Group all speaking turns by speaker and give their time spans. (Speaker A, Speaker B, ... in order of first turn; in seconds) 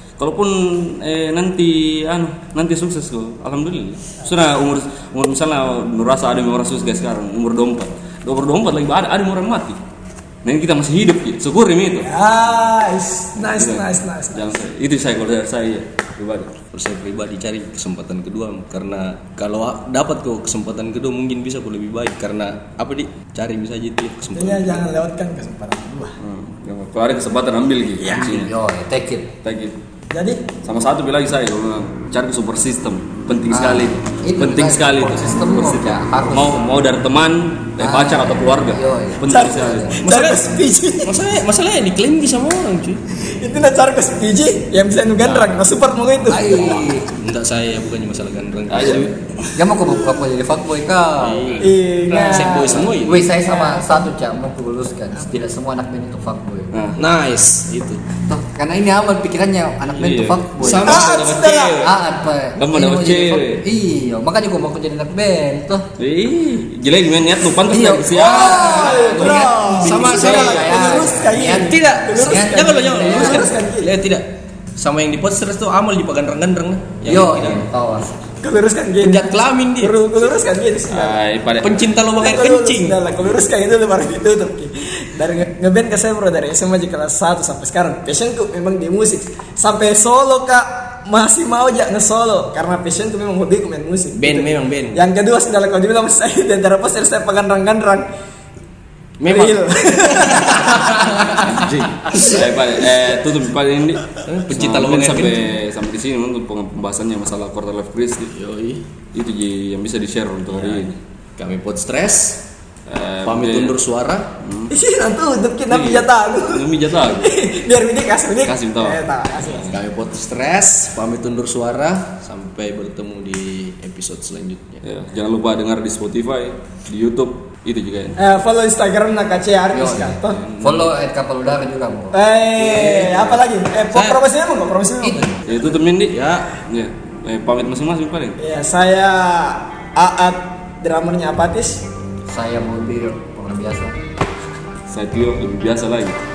Speaker A: 0.2-9.8, 10.4-12.1, 13.4-16.5, 26.2-28.5, 29.4-29.8, 30.6-40.0, 48.7-49.7, 51.3-52.4, 56.7-57.0, 59.9-61.9, 62.6-63.6, 66.0-69.5, 80.9-81.9, 101.2-108.3, 109.1-111.0, 112.9-113.8, 114.4-114.7, 115.7-117.4, 118.4-119.7, 124.8-128.2, 132.6-133.4, 135.4-138.4, 144.9-146.2
Speaker B: 12.1-14.6, 24.3-26.2, 28.0-28.3, 30.1-30.5, 39.2-41.2, 43.2-46.8, 51.6-54.1, 60.7-61.9, 68.2-73.9, 78.4-81.2, 82.2-98.1, 99.3-101.1, 114.7-119.7, 128.2-130.4, 132.1-135.4, 138.4-141.9
Speaker C: 16.7-24.9, 40.0-40.5, 41.0-43.0, 45.3-45.5, 46.8-49.1, 51.2-51.7, 52.2-53.3, 57.0-58.0, 60.6-61.4, 68.7-69.0, 69.6-77.7, 79.0-80.0, 81.6-83.0, 94.1-95.0, 99.2-101.4, 104.2-105.5, 108.3-108.8, 110.6-112.5, 113.2-114.4, 119.7-124.8, 130.4-130.9, 133.9-134.2, 136.1-136.6
Speaker D: 28.1-29.3, 33.5-36.6, 37.8-40.0, 46.2-47.1, 49.5-51.6, 52.5-56.9, 58.2-61.1, 61.7-65.9, 67.7-73.6, 77.0-78.2, 129.7-132.2, 135.0-135.8, 142.3-143.9